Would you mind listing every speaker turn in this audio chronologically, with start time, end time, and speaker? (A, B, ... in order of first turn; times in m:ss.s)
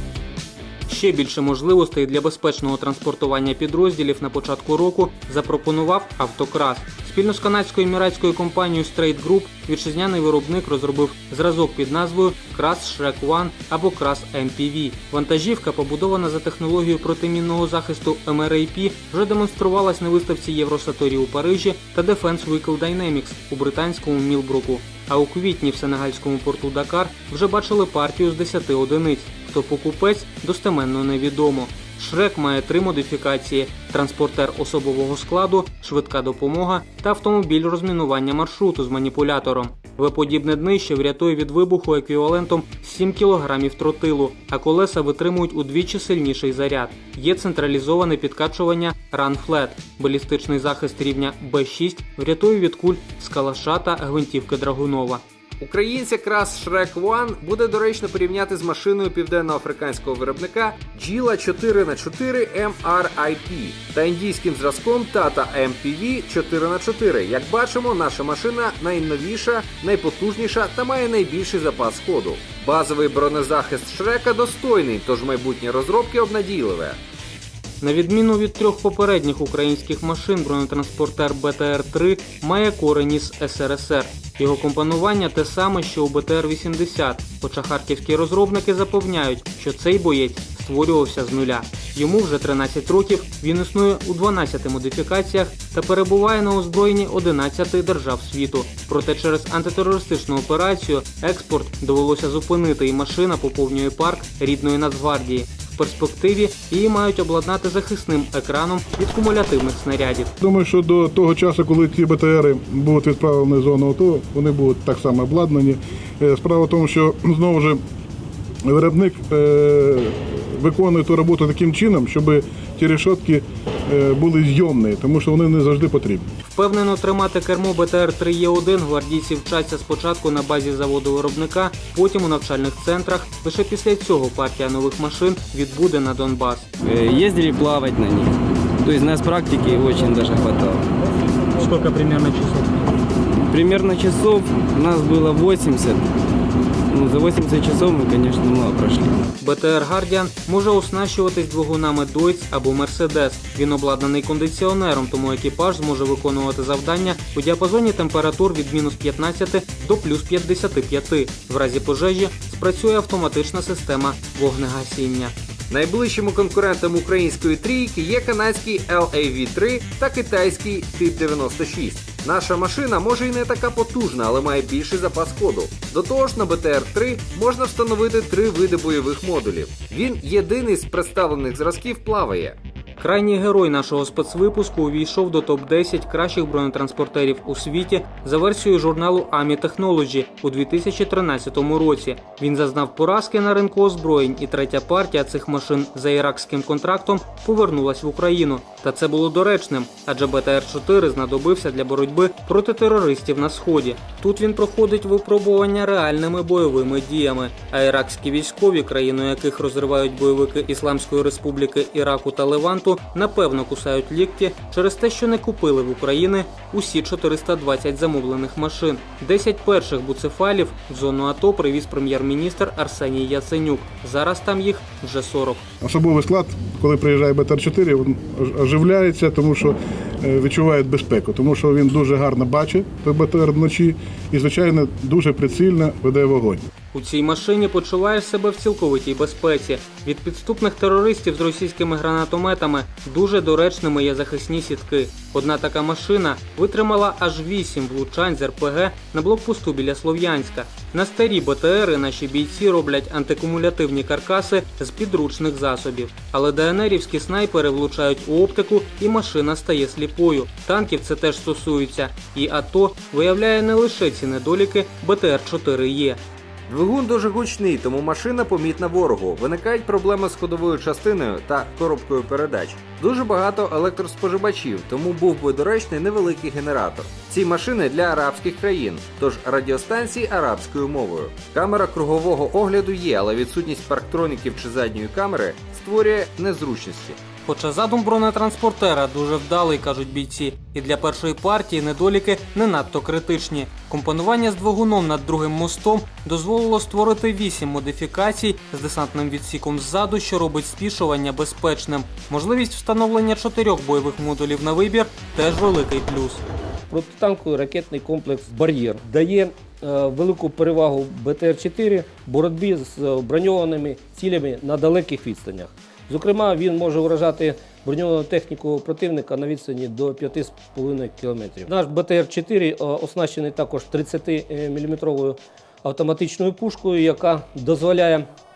0:00.9-0:55.2 A
0:55.6-1:17.0 B
1:17.8-1:50.3 A
1:50.4-1:57.8 C
1:58.6-2:06.2 C
2:06.4-2:16.7 A
2:16.8-2:20.9 D
2:21.5-2:22.9 A
2:23.5-2:26.1 D
2:26.9-2:29.2 D
2:29.4-2:45.3 A
2:45.7-3:02.6 B
3:03.0-3:45.6 A
3:45.8-3:56.6 C
3:56.9-4:26.2 A
4:26.7-4:47.2 B
4:47.4-5:06.4 A
5:06.9-5:28.3 E